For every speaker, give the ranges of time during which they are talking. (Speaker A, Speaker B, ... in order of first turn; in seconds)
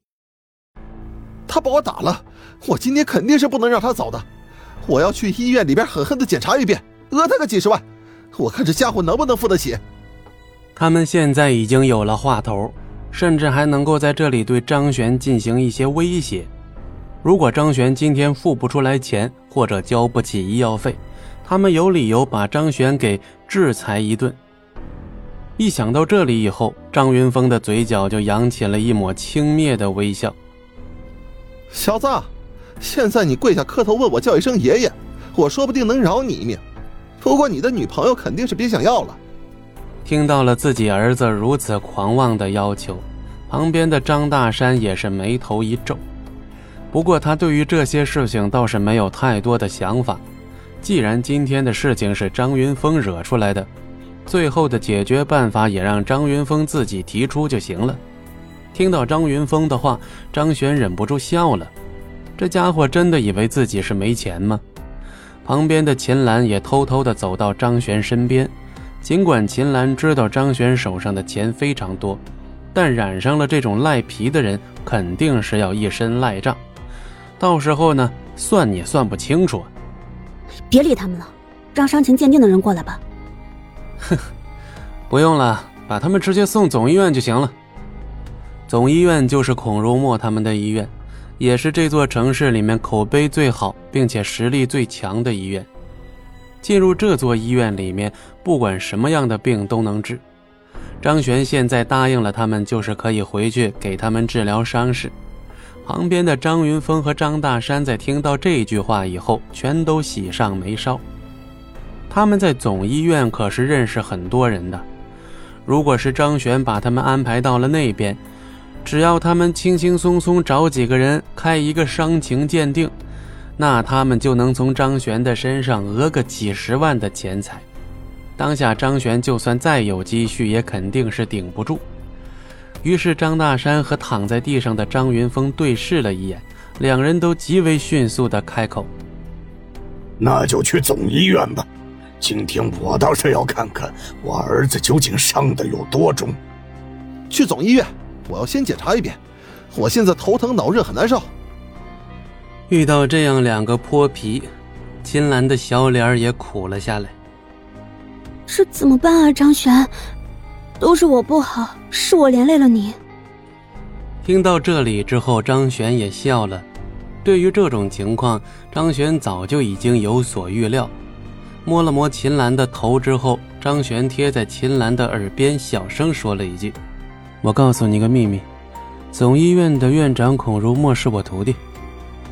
Speaker A: 1.5-4.2, 4.8-9.8, 31.7-32.3, 32.8-36.6, 37.2-39.2, 147.3-149.2, 149.7-151.3
Speaker B: 10.8-16.5, 17.2-24.4, 25.6-30.4, 40.0-46.0, 46.9-50.2, 50.8-53.7, 54.3-58.0, 58.7-61.7, 62.4-64.6, 65.5-72.2, 72.7-76.6, 77.4-79.7, 85.1-87.5, 88.7-95.7, 96.6-100.2, 101.0-105.1, 105.8-111.0, 112.1-114.8, 115.7-118.2, 118.8-122.9, 123.6-127.7, 128.4-131.8, 132.8-138.9, 152.7-154.5, 155.0-157.1, 164.2-166.7, 167.2-170.9, 171.7-176.8, 177.4-178.5, 179.1-181.6
Speaker C: 80.7-83.0, 158.5-159.9, 160.8-163.0
Speaker D: 140.2-141.7, 142.2-146.4